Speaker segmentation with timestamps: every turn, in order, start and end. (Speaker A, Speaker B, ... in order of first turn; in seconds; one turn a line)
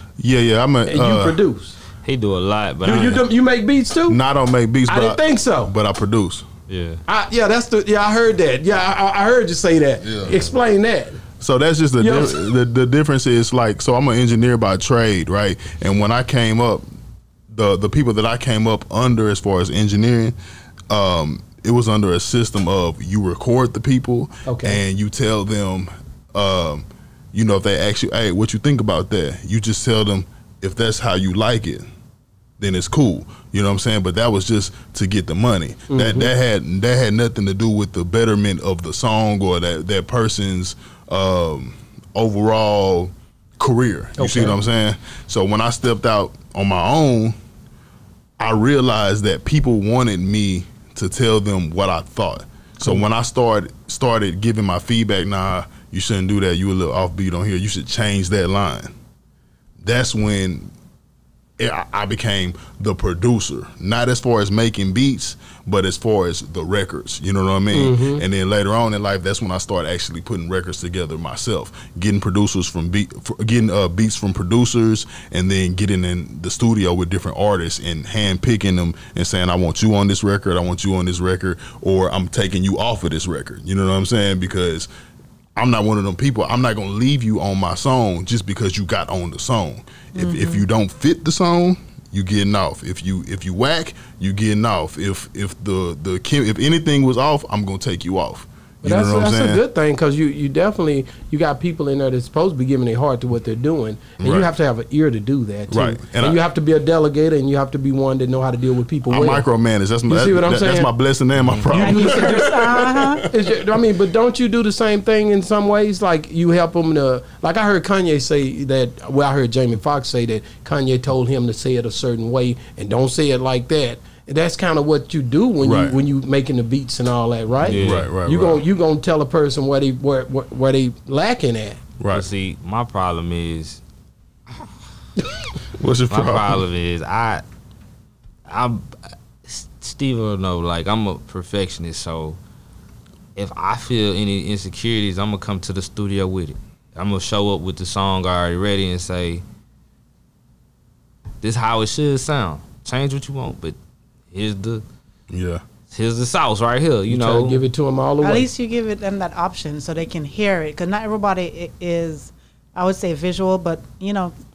Speaker A: 0.2-1.4
Speaker B: 0.8-1.8
Speaker C: 2.0-3.2
Speaker B: 2.8-4.2
Speaker A: 4.1-6.5
Speaker B: 4.9-5.7
Speaker C: 6.7-7.0
Speaker B: 7.1-11.2
Speaker A: 10.0-10.4
Speaker A: 11.4-16.8
Speaker B: 12.0-12.3
Speaker A: 17.5-20.4
Speaker A: 20.9-31.9
Speaker B: 24.4-24.8
Speaker A: 32.6-47.4
Speaker B: 35.9-36.3
Speaker B: 44.2-44.6
Speaker A: 48.4-58.9
Speaker A: 59.8-60.7
Speaker A: 61.6-84.9
Speaker B: 67.7-68.2
Speaker A: 85.5-99.6
Speaker D: 90.1-90.6
Speaker B: 98.8-109.4
Speaker A: 104.2-104.5
Speaker A: 105.7-106.4
Speaker A: 109.1-113.7
Speaker B: 110.1-110.9
Speaker B: 111.7-112.7
Speaker D: 111.7-113.2
Speaker B: 113.3-131.8
Speaker A: 125.6-126.0
Speaker C: 127.6-128.1
Speaker A: 127.7-128.6
Speaker A: 132.0-132.2
Speaker C: 132.1-133.8
Speaker A: 135.7-136.6
Speaker C: 136.1-137.4
Speaker C: 138.5-142.4
Speaker C: 143.3-149.4
Speaker C: 151.4-153.8
Speaker C: 154.3-154.8
Speaker A: 155.3-155.6
Speaker C: 155.9-157.6
Speaker B: 157.1-158.5
Speaker D: 158.2-164.3